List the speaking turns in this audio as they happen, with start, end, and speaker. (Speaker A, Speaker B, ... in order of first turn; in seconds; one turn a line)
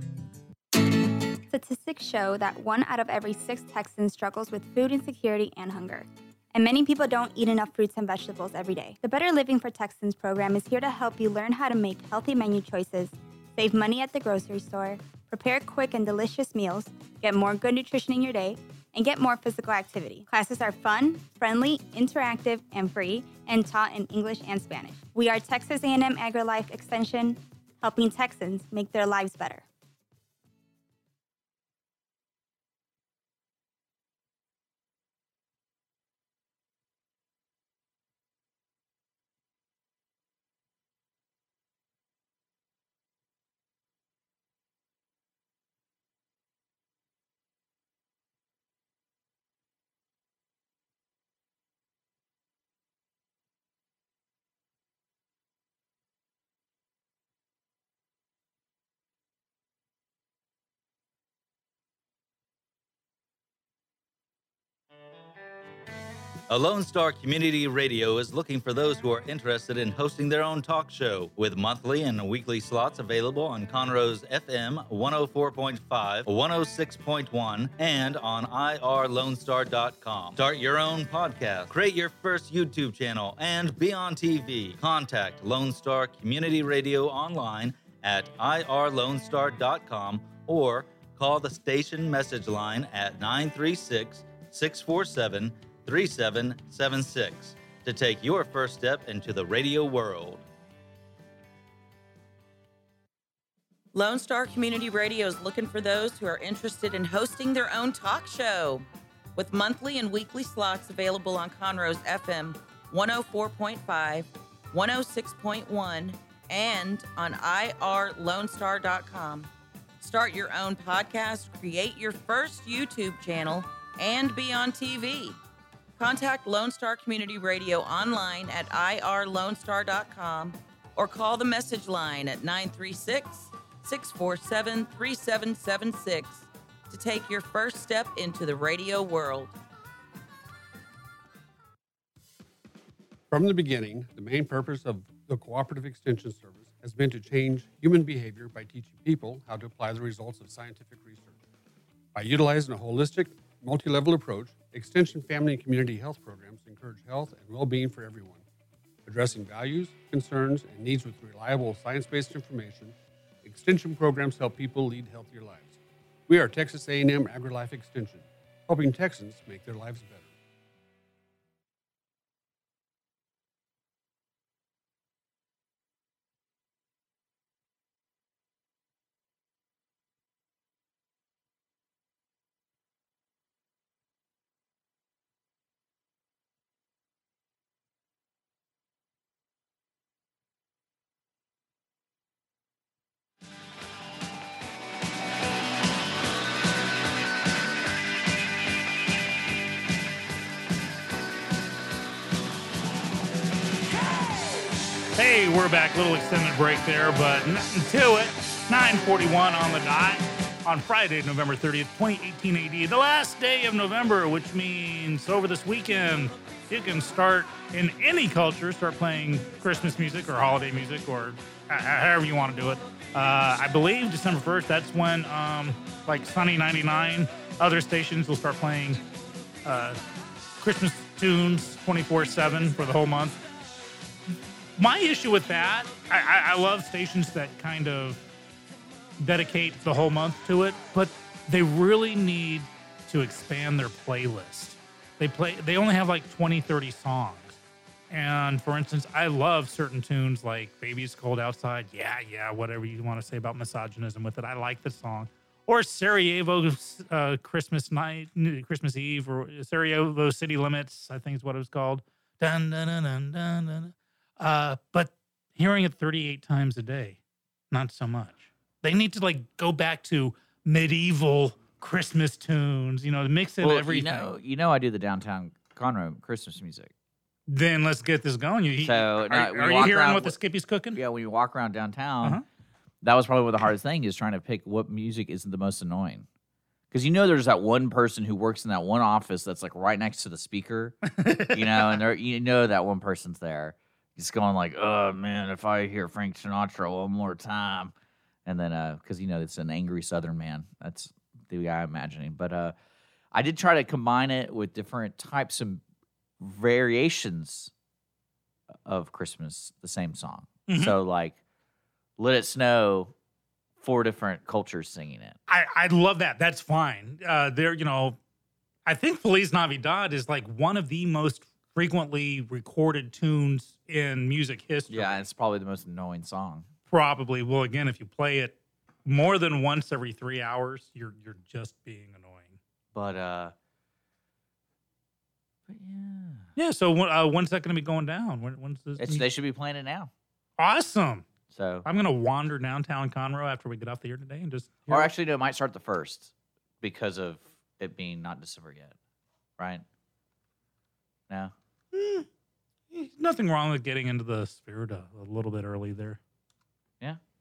Speaker A: 1.5-29.6
Speaker B: 66.5-100.4
Speaker C: 103.9-125.4
Speaker C: 126.0-139.5
Speaker D: 143.3-151.3
Speaker D: 152.1-158.4
Speaker D: 159.0-170.3
Speaker E: 205.2-229.0
Speaker E: 229.6-230.0
Speaker E: 230.6-233.4
Speaker E: 234.8-238.2
Speaker E: 239.2-247.6
Speaker E: 248.1-267.2
Speaker E: 267.7-274.3
Speaker F: 273.6-276.9
Speaker E: 277.5-281.0
Speaker F: 278.8-280.4
Speaker F: 280.9-282.4
Speaker F: 283.0-286.3
Speaker F: 286.9-297.9
Speaker E: 291.1-292.0
Speaker F: 298.4-302.7
Speaker F: 303.3-305.8
Speaker F: 306.4-307.7
Speaker F: 308.8-311.4
Speaker E: 310.7-311.0
Speaker F: 312.2-313.1
Speaker F: 313.8-315.4
Speaker E: 315.5-318.2
Speaker E: 318.9-325.2
Speaker F: 324.9-326.7
Speaker E: 326.9-332.6
Speaker F: 332.9-333.5
Speaker F: 335.7-336.5
Speaker E: 336.6-339.3
Speaker F: 339.0-340.1
Speaker E: 340.6-341.2
Speaker F: 341.5-341.9
Speaker E: 341.8-345.1
Speaker F: 344.9-348.9
Speaker F: 349.6-349.8
Speaker E: 351.9-352.2
Speaker E: 352.9-356.2